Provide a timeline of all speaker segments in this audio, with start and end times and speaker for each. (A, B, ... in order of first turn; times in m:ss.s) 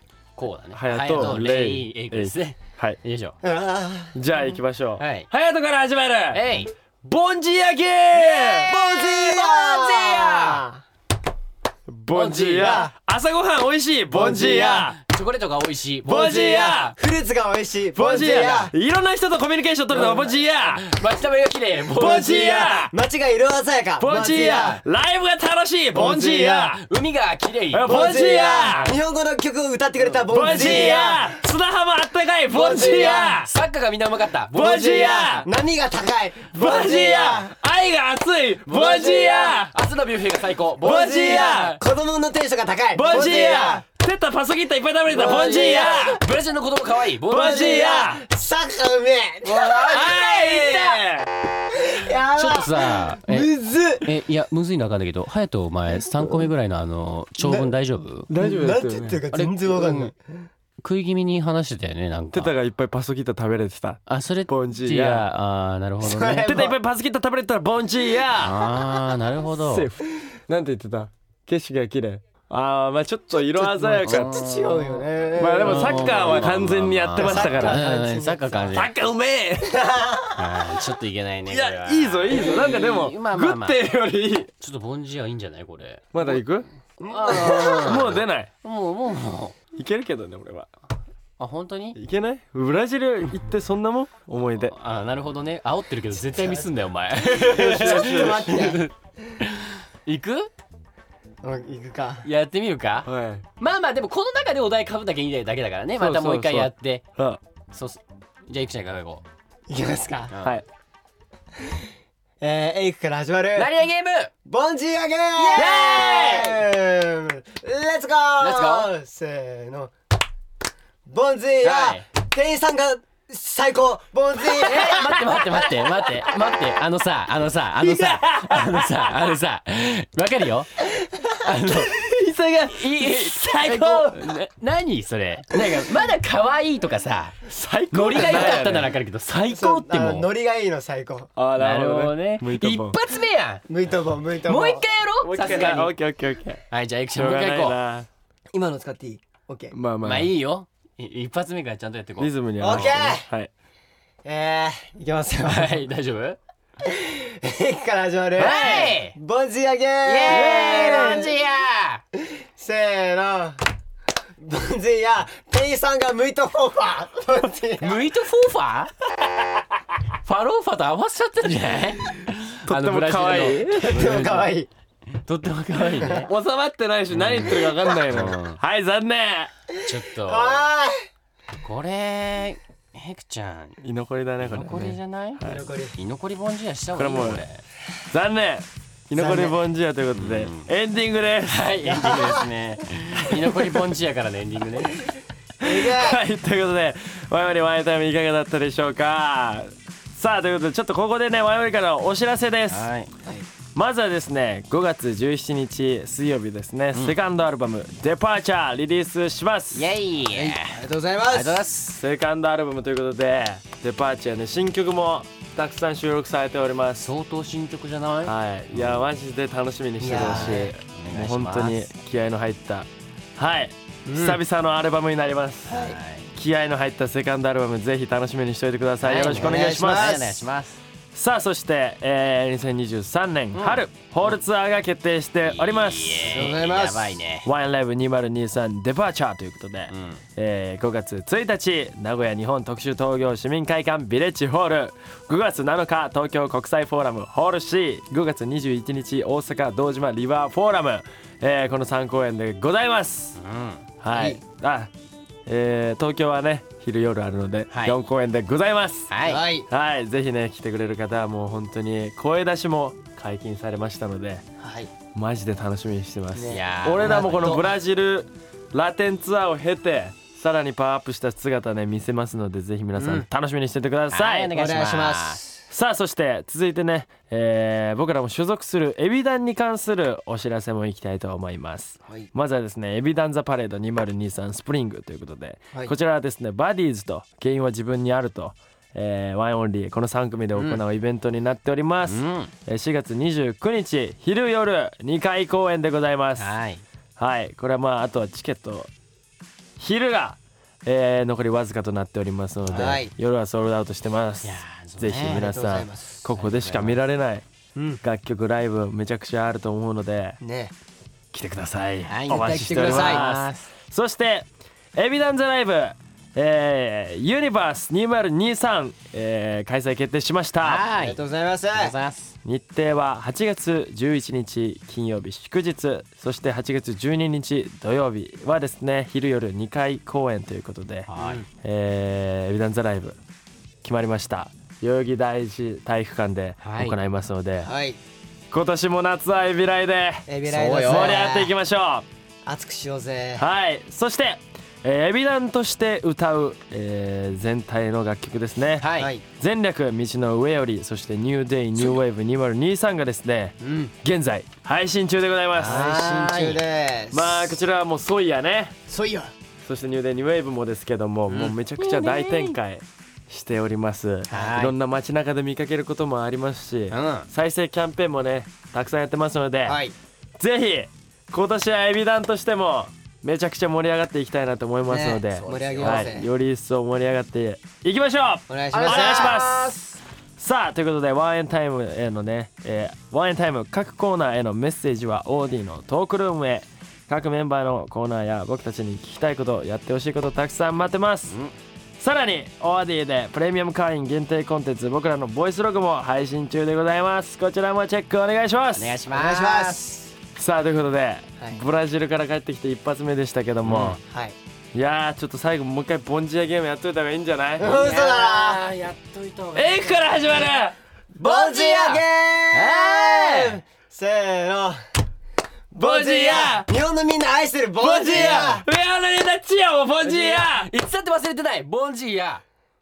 0:00.4-0:03.4 A
0:00.7-0:03.0 B
0:03.4-0:04.2 C
0:04.2-0:06.5 B
0:05.0-0:05.3 A
0:06.3-0:06.7 A
0:07.0-0:08.7 B
0:08.4-0:10.7 A
0:08.7-0:10.8 C
0:11.9-0:15.0 B
0:12.1-0:12.9 C
0:14.1-0:14.9 C
0:14.9-0:16.8 A
0:16.1-0:17.0 B
0:16.1-0:18.7 C
0:18.0-0:20.9 B
0:19.9-0:20.4 C
0:20.6-0:22.3 A
0:21.9-0:24.8 C
0:21.9-0:22.9 B
0:24.0-0:26.8 B
0:25.9-0:26.8 C
0:26.7-0:28.0 A
0:27.7-0:29.0 B
0:27.8-0:31.4 C
0:28.6-0:29.0 A
0:30.0-0:30.3 A
0:30.3-0:33.5 B
0:32.5-0:33.4 C
0:32.9-0:35.2 A
0:34.5-0:35.5 B
0:34.6-0:37.6 C
0:36.5-0:39.8 B
0:38.7-0:41.8 A
0:38.8-0:39.2 C
0:40.8-0:41.8 B
0:40.8-0:43.8 C
0:42.9-0:46.2 B
0:45.1-0:46.1 C
0:45.2-0:48.0 A
0:47.3-0:48.2 B
0:47.4-0:51.0 C
0:49.5-0:51.3 B
0:49.5-0:50.8 A
0:51.7-0:54.1 C
0:52.3-0:58.3 A
0:56.1-0:56.5 B
0:57.4-0:57.7 C
0:58.3-0:59.2 B
0:58.4-1:00.5 C
0:59.3-1:00.1 A
1:00.8-1:02.6 A
1:02.3-1:05.3 B
1:04.1-1:06.6 A
1:06.0-1:06.8 C
1:06.4-1:09.0 B
1:08.3-1:09.9 A
1:09.6-1:14.4 B
1:13.5-1:16.3 C
1:14.0-1:15.1 A
1:15.4-1:17.8 B
1:15.6-1:18.9 A
1:17.2-1:18.8 C
1:18.7-1:19.8 B
1:19.6-1:20.7 C
1:20.4-1:23.8 A
1:21.5-1:24.5 B
1:24.6-1:26.4 A
1:26.1-1:26.7 B
1:27.0-1:28.2 C
1:27.1-1:29.6 A
1:27.8-1:28.5 B
1:29.8-1:30.7 B
1:31.4-1:32.0 A
1:32.0-1:34.8 B
1:34.6-1:40.5 A
1:36.3-1:36.7 C
1:37.3-1:38.8 C
1:37.5-1:38.7 B
1:41.4-1:42.3 C
1:42.2-1:47.0 A
1:43.0-1:43.5 B
1:46.0-1:47.4 B
1:47.7-1:49.2 A
1:49.7-1:50.3 C
1:50.3-1:50.6 A
1:52.4-1:53.7 C
1:53.6-1:54.3 A
1:54.4-1:59.9 C
1:55.4-1:56.5 A
1:55.5-1:56.6 B
1:58.4-1:58.9 A
2:01.1-2:05.7 C
2:01.6-2:02.0 A
2:04.6-2:10.8 A
2:07.8-2:09.1 B
2:11.0-2:11.4 C
2:11.4-2:12.0 A
2:11.9-2:14.3 B
2:12.7-2:20.3 A
2:17.5-2:20.0 B
2:18.2-2:18.7 C
2:19.5-2:21.3 C
2:21.4-2:23.0 B
2:21.6-2:23.7 A
2:23.7-2:24.8 C
2:24.4-2:25.9 A
2:25.2-2:26.6 B
2:26.7-2:27.8 A
2:27.2-2:28.1 B
2:28.5-2:29.8 C
2:29.7-2:30.3 B
2:30.0-2:33.0 A
2:32.2-2:33.5 B
2:32.6-2:33.3 C
2:34.2-2:35.8 C
2:35.4-2:36.4 A
2:36.8-2:41.3 C
2:38.4-2:39.2 A
2:40.0-2:42.0 A
2:40.3-2:41.3 B
2:42.2-2:43.6 C
2:44.4-2:48.0 C
2:47.8-2:48.9 A
2:50.2-2:54.4 A
2:52.7-2:54.4 B
2:53.8-2:54.7 C
2:55.2-2:56.3 A
2:56.0-2:56.2 C
2:56.2-2:59.5 B
2:57.1-2:58.6 A
2:59.7-3:01.0 C
2:59.8-3:00.7 A
3:01.6-3:03.8 A
3:03.8-3:05.7 B
3:04.4-3:05.4 A
3:05.4-3:06.0 C
3:06.0-3:07.6 A
3:07.0-3:07.4 B
3:08.1-3:11.7 B
3:09.1-3:09.7 C
3:10.2-3:10.7 A
3:11.5-3:15.0 A
3:11.9-3:12.5 C
3:15.6-3:22.9 B
3:15.6-3:16.2 C
3:22.7-3:23.1 A
3:23.2-3:23.5 C
3:23.8-3:29.9 B
3:29.7-3:32.0 A
3:30.3-3:31.6 C
3:32.0-3:37.1 B
3:37.0-3:39.1 A
3:38.2-3:45.8 B
3:40.0-3:40.7 C
3:40.1-3:41.9 A
3:44.1-3:44.4 C
3:45.7-3:46.0 C
3:45.7-3:46.3 A
3:46.4-3:50.2 B
3:49.0-3:50.8 A
3:49.3-3:50.4 C
3:51.1-3:56.5 B
3:53.5-3:54.4 A
3:55.4-3:57.5 A
3:56.2-3:57.2 C
3:57.4-4:13.4 B
3:59.9-4:00.2 A
4:13.4-4:13.9 A
4:14.0-4:14.9 B
4:14.1-4:14.4 C
4:15.5-4:19.1 B
4:17.7-4:18.0 A
4:19.1-4:19.5 A
4:19.2-4:19.7 C
4:19.7-4:24.4 B
4:24.6-4:24.9 C
4:25.1-4:34.5 B
4:26.3-4:27.7 C
4:26.5-4:27.7 A
4:33.0-4:33.3 C
4:34.1-4:35.4 A
4:34.5-4:35.6 C
4:35.7-4:56.6 B
4:52.1-4:52.5 A
4:56.4-4:56.8 A
4:57.2-4:58.9 B
4:59.8-5:07.5 B
5:02.7-5:03.1 C
5:04.4-5:05.5 A
5:05.4-5:06.3 C
5:06.4-5:07.0 A
5:07.8-5:08.0 C
5:08.0-5:10.4 B
5:10.4-5:10.7 C
5:11.3-5:20.9 B
5:12.1-5:13.7 A
5:12.3-5:13.2 C
5:20.6-5:22.4 A
5:21.0-5:22.0 C
5:22.4-5:31.1 B
5:31.1-5:31.4 A
5:31.2-5:31.5 C
5:31.6-5:33.2 B
5:33.8-5:37.7 B
5:36.6-5:37.0 A
5:37.6-5:38.0 C
5:38.5-5:40.3 B
5:40.3-5:41.5 C
5:40.4-5:41.2 A
5:40.8-5:42.1 B
5:42.5-5:43.5 C
5:43.4-5:55.9 B
5:48.8-5:49.1 A
5:49.0-5:49.2 C
5:53.6-5:53.9 C
5:55.6-5:57.6 C
5:55.6-5:56.6 A
5:57.1-5:58.8 B
5:58.9-5:59.3 C
5:59.6-6:09.8 B
6:01.3-6:02.6 A
6:04.3-6:04.7 A
6:06.9-6:07.3 A
6:09.7-6:09.9 C
6:10.4-6:19.7 B
6:14.9-6:16.3 C
6:15.3-6:16.2 A
6:18.5-6:19.8 C
6:18.7-6:19.6 A
6:20.4-6:31.4 B
6:32.0-6:39.0 B
6:38.8-6:40.0 A
6:39.1-6:40.0 C
6:40.4-6:44.0 B
6:43.6-6:44.0 A
6:44.0-6:44.4 C
6:44.7-6:47.7 B
6:47.6-6:48.7 C
6:47.6-6:50.5 A
6:49.6-6:50.8 B
6:51.1-6:54.8 C
6:51.2-6:53.6 A
6:55.7-6:58.7 C
6:55.8-6:56.7 B
6:57.8-7:00.7 B
7:00.0-7:02.4 A